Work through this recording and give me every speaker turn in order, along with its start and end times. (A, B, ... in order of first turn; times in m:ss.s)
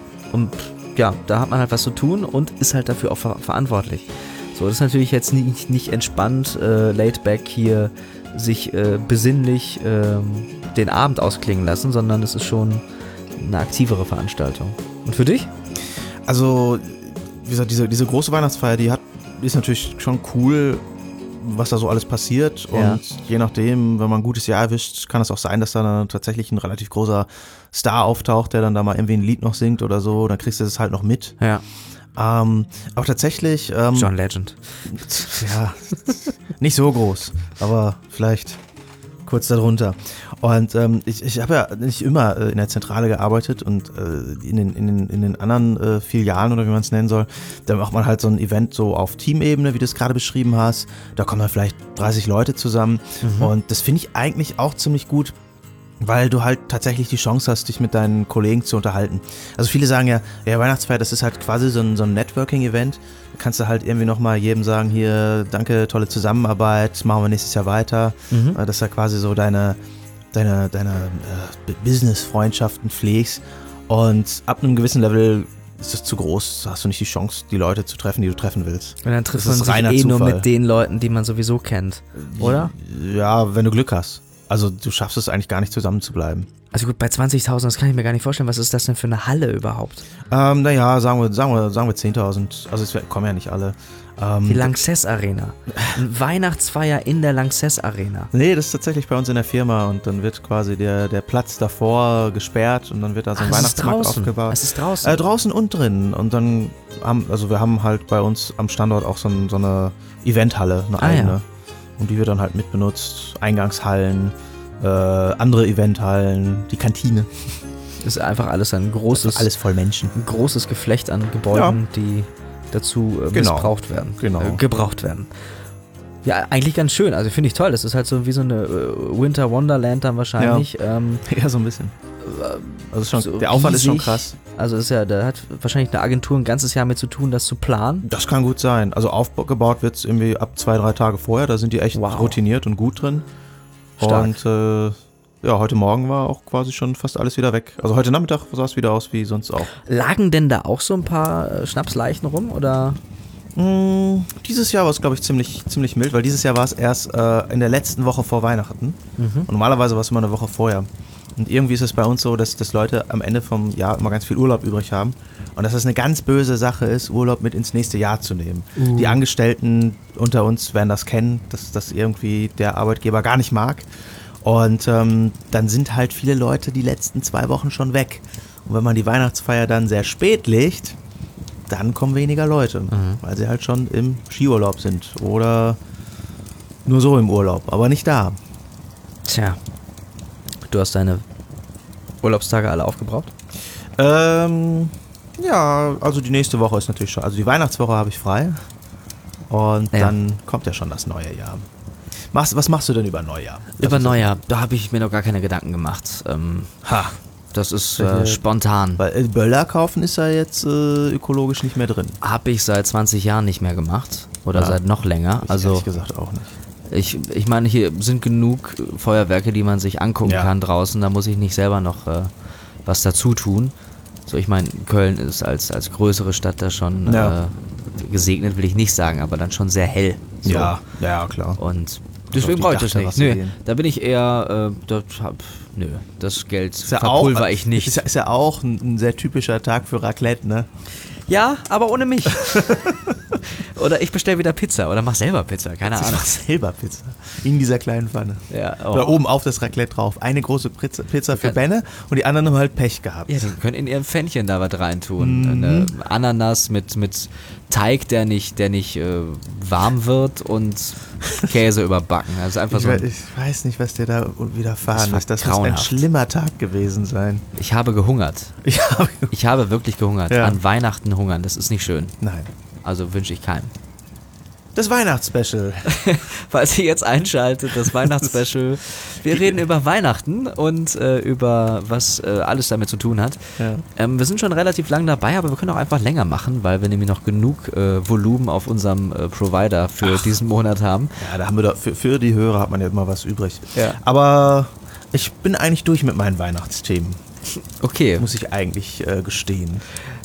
0:00.3-0:12.8 A
0:13.4-0:15.5 A
0:16.2-0:20.8 B
0:21.4-0:31.3 B
0:22.7-0:23.0 A
0:32.2-0:34.1 B
0:33.9-0:34.6 A
0:34.9-0:38.6 B
0:39.2-0:55.4 B
0:53.2-0:53.5 A
0:56.0-1:09.8 B
1:08.3-1:08.6 A
1:10.3-1:20.5 B
1:19.0-1:22.7 A
1:22.3-1:26.5 B
1:26.7-1:30.0 A
1:30.3-1:34.7 B
1:34.4-1:38.3 A
1:35.7-1:36.0 B
1:38.3-1:51.4 B
1:43.4-1:45.2 A
1:51.0-1:51.4 A
1:52.0-1:57.3 B
1:58.0-1:59.5 A
1:59.1-2:00.1 B
2:00.1-2:05.3 A
2:01.5-2:01.8 B
2:03.3-2:04.6 B
2:06.2-2:11.2 A
2:10.4-2:10.7 B
2:11.2-2:11.9 B
2:12.2-2:18.1 A
2:12.9-2:14.4 B
2:18.0-2:23.2 B
2:21.9-2:22.4 A
2:24.0-2:24.4 A
2:24.0-2:29.7 B
2:29.8-2:33.0 A
2:33.6-2:53.9 B
2:39.2-2:39.5 A
2:48.8-2:49.2 A
2:54.4-3:01.0 B
3:01.7-3:05.8 B
3:02.9-3:03.2 A
3:06.8-3:08.4 B
3:09.2-3:09.6 A
3:10.7-3:11.2 A
3:12.2-3:13.3 A
3:14.0-3:18.6 B
3:19.5-3:21.6 B
3:22.3-3:24.3 B
3:23.8-3:26.7 A
3:26.8-3:27.2 B
3:27.5-3:29.0 A
3:28.0-3:28.4 B
3:29.0-3:32.2 B
3:32.2-3:35.8 A
3:34.5-3:34.8 B
3:35.4-3:36.6 B
3:36.9-3:42.3 A
3:40.2-3:40.5 B
3:42.8-3:43.7 A
3:44.3-3:50.8 A
3:47.0-3:47.4 B
3:50.4-3:51.6 B
3:51.6-3:58.0 A
3:52.3-3:53.5 B
3:56.8-4:00.7 B
4:01.3-4:06.3 A
4:02.4-4:03.1 B
4:05.9-4:13.5 B
4:08.5-4:09.2 A
4:11.3-4:11.6 A
4:13.3-4:23.0 A
4:15.2-4:15.9 B
4:22.7-4:27.4 B
4:24.9-4:26.0 A
4:27.6-4:28.5 A
4:28.6-4:29.3 B
4:29.3-4:32.1 A
4:30.3-4:30.6 B
4:32.2-4:32.5 B
4:32.8-4:33.7 A
4:34.7-4:35.9 B
4:35.8-4:51.2 A
4:37.8-4:38.3 B
4:39.3-4:39.6 B
4:43.6-4:43.8 B
4:50.0-4:50.3 B
4:51.2-4:57.2 B
4:57.6-4:58.3 A
4:58.2-4:59.8 B